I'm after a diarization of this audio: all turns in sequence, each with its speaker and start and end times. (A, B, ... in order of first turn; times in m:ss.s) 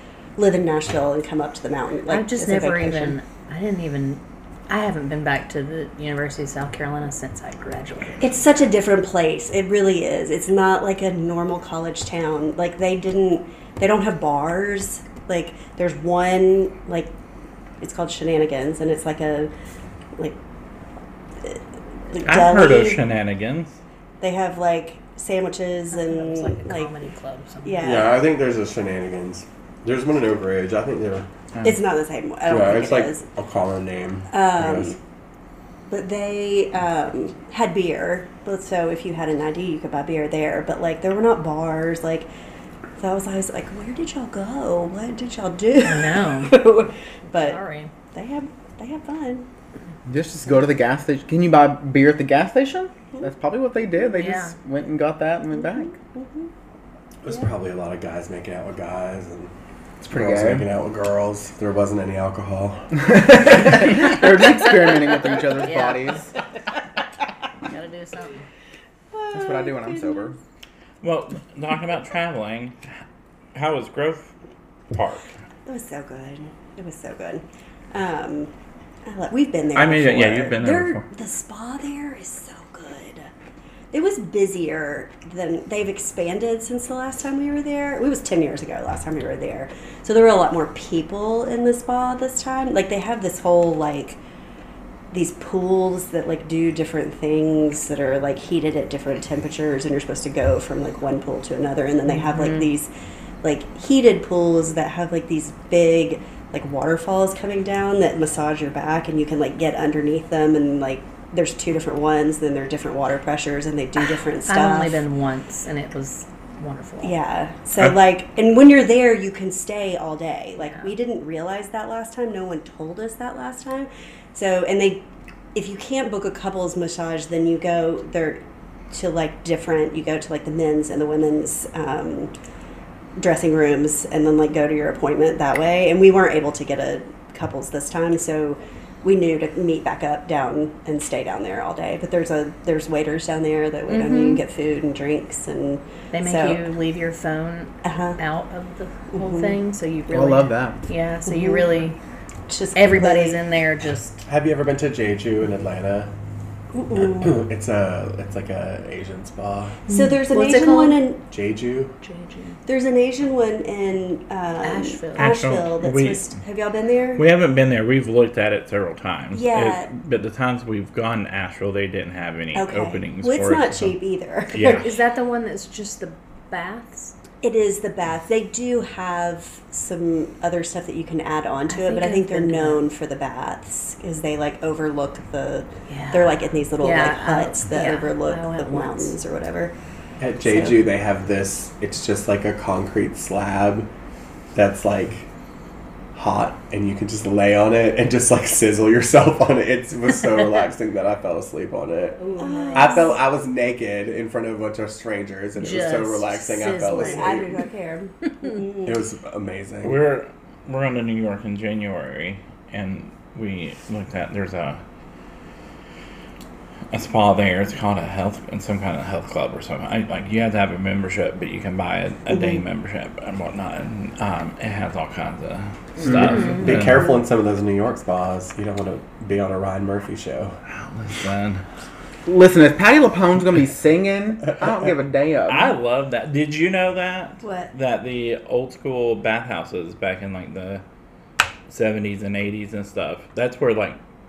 0:00.4-0:03.2 A
0:02.1-0:08.3 B
0:08.2-0:17.1 A
0:17.8-0:19.5 A
0:21.4-0:23.0 A
0:22.2-0:23.8 C
0:24.2-0:26.9 A
0:25.9-0:28.2 B
0:27.6-0:28.2 A
0:27.8-0:31.3 D
0:31.6-0:33.3 A
0:32.5-0:35.0 D
0:34.3-0:35.0 A
0:35.9-0:42.3 A
0:43.0-0:47.6 A
0:45.8-0:46.7 B
0:47.4-0:47.9 B
0:48.1-0:49.5 A
0:50.1-0:56.0 E
0:54.1-0:54.6 B
0:56.1-0:56.5 A
0:57.2-0:59.5 D
1:00.0-1:00.7 E
1:00.0-1:03.2 D
1:03.0-1:06.3 E
1:04.5-1:06.2 B
1:07.6-1:08.5 B
1:09.1-1:10.4 A
1:09.3-1:10.4 E
1:11.0-1:12.8 C
1:13.6-1:14.3 C
1:14.9-1:15.3 C
1:15.7-1:18.5 A
1:19.1-1:23.3 A
1:19.8-1:21.0 C
1:23.9-1:34.2 A
1:35.1-1:42.9 A
1:42.1-1:42.7 B
1:43.4-1:55.0 A
1:54.4-1:57.2 B
1:57.0-2:08.4 A
2:00.6-2:00.9 B
2:08.9-2:12.3 A
2:13.2-2:26.7 A
2:23.9-2:24.4 B
2:26.1-2:32.0 B
2:27.8-2:28.2 A
2:29.1-2:29.5 A
2:30.1-2:30.8 E
2:31.3-2:31.7 A
2:32.5-2:33.4 A
2:32.8-2:34.2 B
2:34.3-2:36.1 D
2:36.7-2:37.3 A
2:37.0-2:39.8 D
2:39.9-2:41.0 B
2:39.9-2:41.2 A
2:41.3-2:41.9 D
2:42.0-2:42.6 B
2:42.7-2:47.2 A
2:44.6-2:45.3 B
2:45.2-2:46.3 C
2:47.2-2:54.0 C
2:49.3-2:49.9 A
2:52.6-2:55.0 A
2:54.5-2:54.9 C
2:54.8-2:57.1 B
2:57.4-3:09.8 A
3:01.7-3:02.9 B
3:05.9-3:09.2 B
3:10.2-3:13.9 D
3:10.5-3:10.8 A
3:14.5-3:15.3 D
3:16.2-3:22.2 D
3:22.2-3:23.2 B
3:22.3-3:23.2 A
3:22.7-3:27.5 D
3:25.6-3:27.4 B
3:26.9-3:29.0 A
3:28.8-3:30.0 D
3:29.8-3:34.8 C
3:36.9-3:47.0 C
3:42.3-3:42.6 A
3:46.0-3:50.6 D
3:50.7-3:51.6 C
3:52.3-3:55.7 E
3:55.5-4:00.8 C
3:57.4-3:57.7 A
4:01.7-4:04.0 C